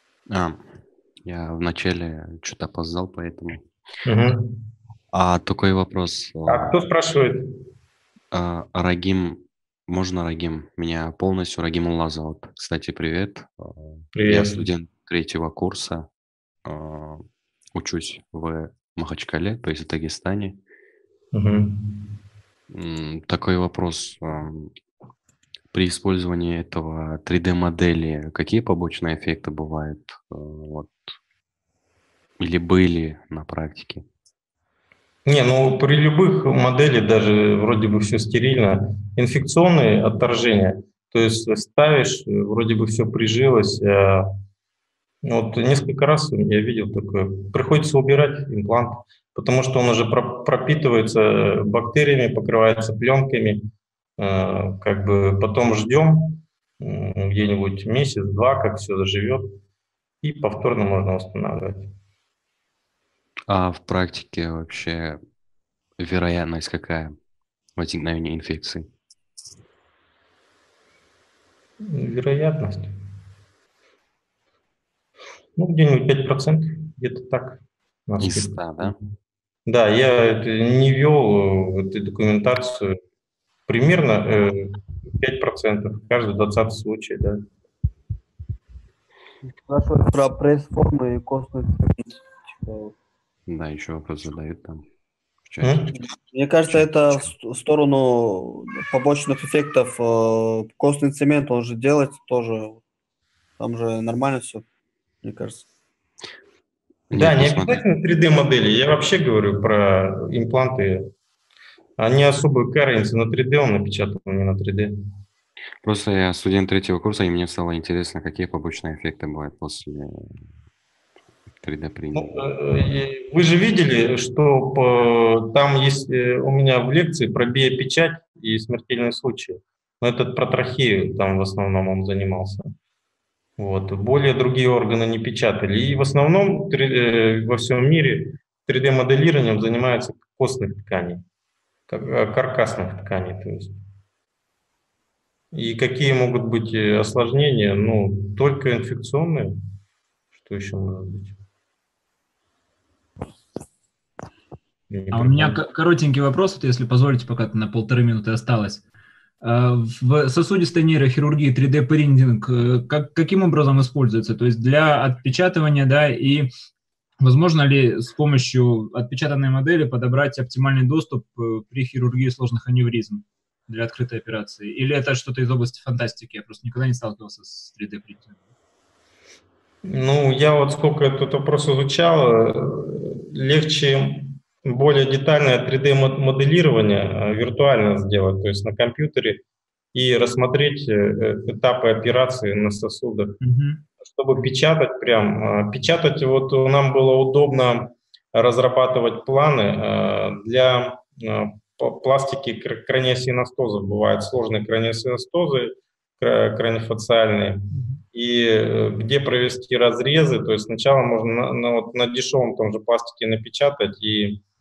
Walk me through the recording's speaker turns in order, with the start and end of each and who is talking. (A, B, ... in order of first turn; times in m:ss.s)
0:00.3-0:00.6 A
0:01.2-0:03.7 A
0:04.0-0:04.6 B
0:05.1-0:06.7 A
0:06.5-0:07.5 B
0:08.3-0:16.1 A
0:14.2-0:14.6 B
0:16.6-0:20.6 A
0:21.3-0:21.8 B
0:22.7-0:24.7 A
0:25.7-0:30.9 A
0:32.4-0:34.0 A
0:35.3-0:44.3 B
0:45.2-0:53.7 B
0:54.2-0:59.6 B
1:00.2-1:01.9 B
1:03.5-1:05.2 A
1:06.0-1:07.1 A
1:07.8-1:08.9 A
1:11.8-1:12.9 B
1:15.6-1:19.0 B
1:18.2-1:19.0 A
1:19.7-1:23.0 B
1:23.7-1:27.4 B
1:29.4-1:32.9 C
1:33.5-1:34.8 A
1:35.5-1:36.0 A
1:35.6-1:35.9 B
1:36.3-1:42.8 C
1:43.6-1:44.6 C
1:45.2-1:45.6 C
1:47.1-1:47.8 A
1:47.1-1:51.1 B
1:52.0-1:54.9 B
1:55.8-2:00.4 A
2:01.6-2:02.4 A
2:02.1-2:12.7 B
2:13.6-2:21.2 B
2:21.9-2:23.8 B
2:25.5-2:29.6 B
2:30.4-2:31.3 B
2:34.9-2:35.6 B
2:35.1-2:38.8 D
2:39.4-2:46.5 D
2:47.2-2:58.4 D
2:59.8-3:09.4 B
3:09.9-3:13.4 B
3:13.4-3:13.8 D
3:14.0-3:34.4 B